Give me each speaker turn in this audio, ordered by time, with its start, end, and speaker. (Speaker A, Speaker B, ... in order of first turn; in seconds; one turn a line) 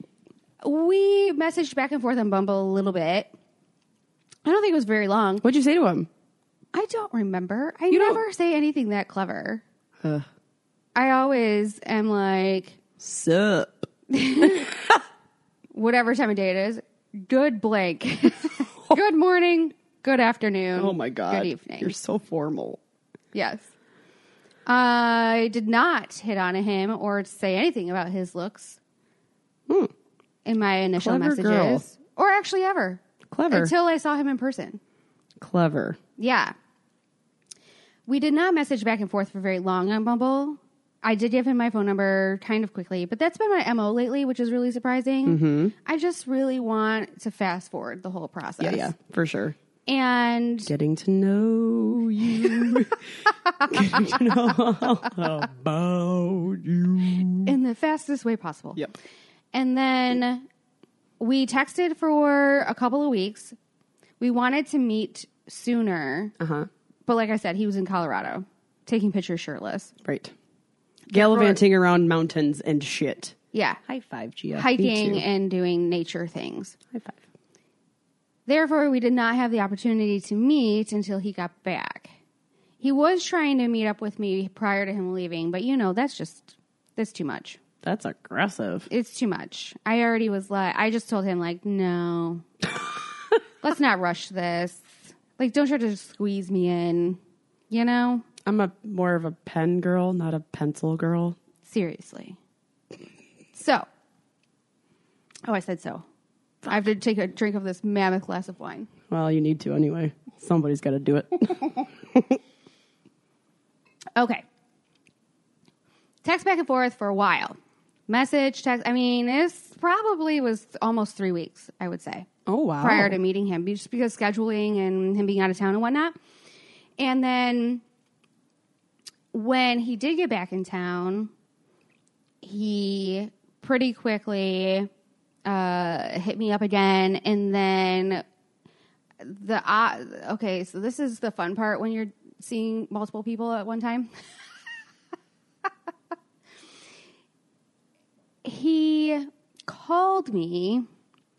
Speaker A: 0.6-3.3
Speaker A: 4.4-5.4
Speaker B: 5.4-6.1
Speaker A: 6.7-9.6
Speaker B: 7.9-8.2
Speaker A: 10.9-12.8
Speaker B: 13.0-13.9
Speaker A: 14.1-14.7
Speaker B: 14.4-14.9
Speaker A: 15.7-21.9
Speaker B: 20.8-22.8
Speaker A: 23.3-23.7
Speaker A: 24.7-28.8
Speaker A: 30.4-34.8
Speaker B: 31.0-31.9
Speaker B: 33.3-33.7
Speaker B: 35.4-36.0
Speaker A: 36.2-36.5
Speaker A: 38.1-48.9
Speaker B: 45.2-45.7
Speaker B: 48.6-49.5
Speaker A: 49.9-50.7
Speaker B: 50.6-53.0
Speaker B: 53.6-57.5
Speaker A: 57.4-58.8
Speaker A: 59.5-60.4
Speaker A: 61.2-63.5
Speaker A: 64.2-66.3
Speaker B: 66.4-66.7
Speaker A: 67.0-69.9
Speaker B: 70.0-70.3
Speaker A: 71.1-71.6
Speaker B: 71.1-73.3
Speaker A: 73.5-73.8
Speaker B: 73.9-75.2
Speaker A: 74.5-76.8
Speaker B: 76.9-77.2
Speaker A: 78.5-82.1
Speaker A: 82.8-87.6
Speaker B: 87.8-88.9
Speaker A: 88.9-92.5
Speaker A: 93.6-97.2
Speaker A: 97.7-98.2
Speaker B: 98.5-101.4
Speaker A: 101.6-102.4
Speaker A: 103.5-103.9
Speaker A: 105.5-106.0
Speaker A: 106.6-108.9
Speaker B: 109.1-112.4
Speaker A: 114.2-114.4
Speaker A: 116.2-117.6
Speaker A: 118.1-122.3
Speaker B: 122.5-123.2
Speaker A: 122.8-126.1
Speaker A: 127.0-127.8
Speaker A: 129.3-131.3
Speaker A: 132.4-134.9
Speaker A: 135.4-138.2
Speaker A: 139.2-144.1
Speaker A: 148.4-150.8